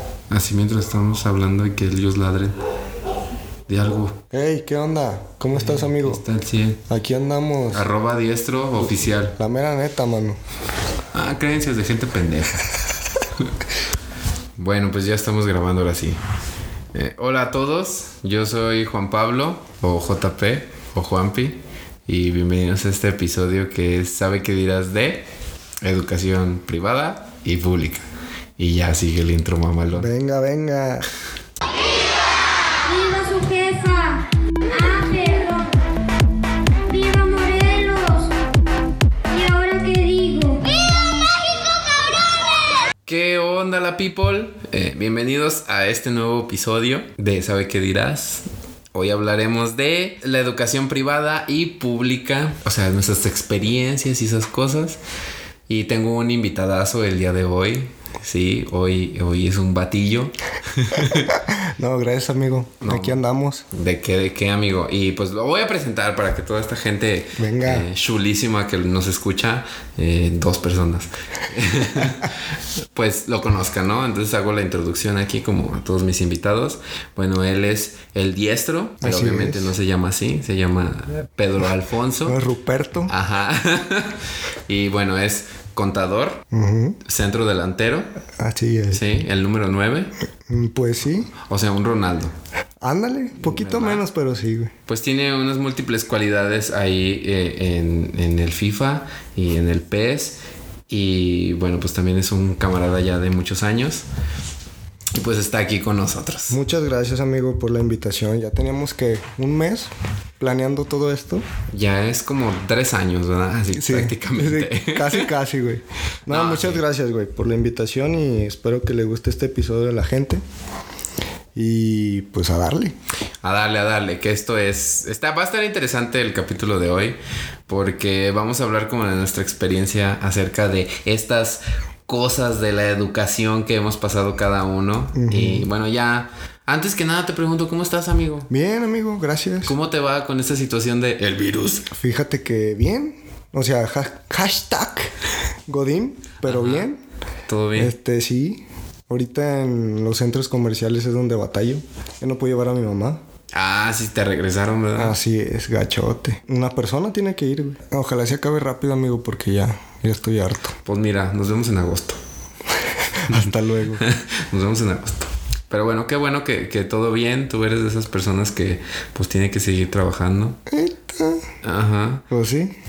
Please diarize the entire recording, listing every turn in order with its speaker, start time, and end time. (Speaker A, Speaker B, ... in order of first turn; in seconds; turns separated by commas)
Speaker A: 0.3-2.5, Speaker A: 3.7-4.2, Speaker B: 4.3-6.2, Speaker A: 5.5-6.8, Speaker B: 6.9-7.9, Speaker A: 7.7-9.4, Speaker B: 8.8-10.4, Speaker A: 11.1-12.7, Speaker A: 14.6-16.2, Speaker A: 16.9-25.2, Speaker A: 25.8-28.0, Speaker A: 28.6-30.1, Speaker B: 29.9-31.1, Speaker C: 32.8-35.8, Speaker C: 36.9-38.4, Speaker C: 39.3-40.9, Speaker A: 43.0-55.0, Speaker A: 55.7-61.4, Speaker B: 61.0-63.6, Speaker A: 62.8-63.2, Speaker A: 63.7-72.4, Speaker B: 67.4-67.9, Speaker A: 72.9-82.4, Speaker B: 79.0-79.7, Speaker B: 82.2-83.1, Speaker A: 83.1-86.4, Speaker B: 86.5-87.0, Speaker A: 87.0-88.1, Speaker B: 88.4-89.0, Speaker A: 88.9-90.1, Speaker B: 90.5-91.3, Speaker A: 91.3-92.3, Speaker B: 92.8-94.7, Speaker A: 93.4-94.0, Speaker A: 94.9-104.0, Speaker A: 105.1-106.6, Speaker B: 106.5-111.5, Speaker A: 111.7-115.3, Speaker B: 113.7-120.4, Speaker A: 116.3-116.8, Speaker B: 121.5-123.0, Speaker A: 123.4-138.5, Speaker B: 135.1-135.7, Speaker B: 138.5-139.8, Speaker A: 139.6-141.9, Speaker B: 141.9-145.1, Speaker B: 145.7-147.0, Speaker A: 146.4-146.9, Speaker A: 147.5-147.9, Speaker B: 147.8-153.2, Speaker A: 153.5-155.2, Speaker B: 154.9-160.7, Speaker A: 160.8-162.2, Speaker B: 163.2-164.0, Speaker A: 163.9-170.6, Speaker B: 170.7-171.4, Speaker A: 171.6-172.2, Speaker B: 172.3-172.8